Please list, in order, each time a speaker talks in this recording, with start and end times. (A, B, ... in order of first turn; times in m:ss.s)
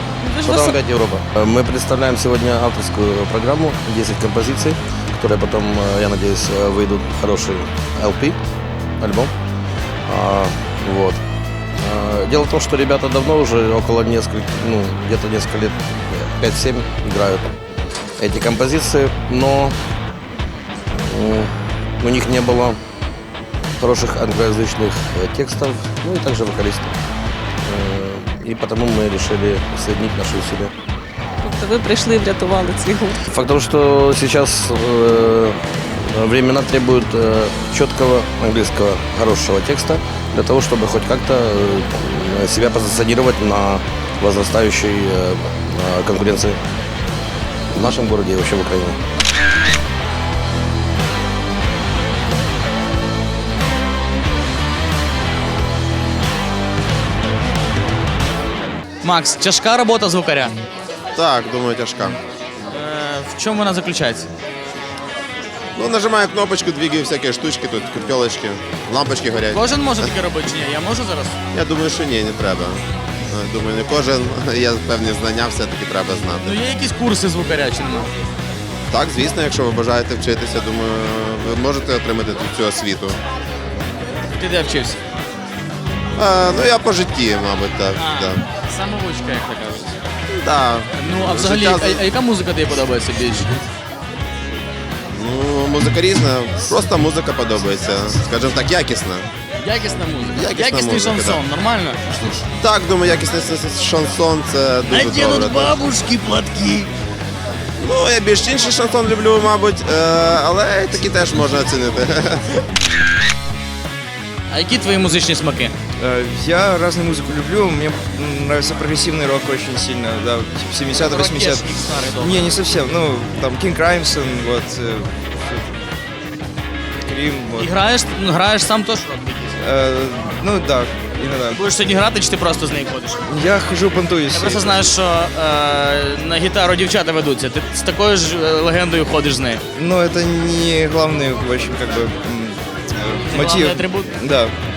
0:00.2-0:00.8 A
0:00.4-0:08.4 B
0:09.0-0:09.3 B
0:10.1-0:11.2 B
0:11.8-0:17.5 B
0:18.2-0:19.8 B
0:20.9-0:22.8 B
0:23.8-0:27.0 B
0:27.6-0:30.7 B
0:31.4-0:33.2 A
0:33.3-0:46.6 B
0:47.7-0:49.0 B
0:59.0-1:00.6 C
1:01.2-1:02.2 D
1:02.7-1:04.3 C
1:05.8-1:10.0 D
1:09.5-1:11.4 C
1:11.5-1:16.6 D
1:16.4-1:18.1 C
1:18.9-1:23.2 D
1:24.4-1:25.0 C
1:26.2-1:28.4 D
1:28.0-1:30.0 C
1:30.3-1:32.0 D
1:31.0-1:33.5 C
1:35.1-1:39.3 D
1:39.6-1:42.0 C
1:40.3-1:41.4 D
1:42.6-1:45.9 D
1:44.9-1:46.9 C
1:47.8-1:52.4 D
1:54.5-1:55.7 C
1:56.0-2:05.7 E
2:00.9-2:02.6 C
2:07.1-2:07.8 E
2:07.6-2:09.5 C
2:09.6-2:11.6 E
2:11.5-2:13.2 C
2:13.3-2:14.9 E
2:14.3-2:19.6 C
2:19.8-2:24.5 E
2:23.3-2:24.1 C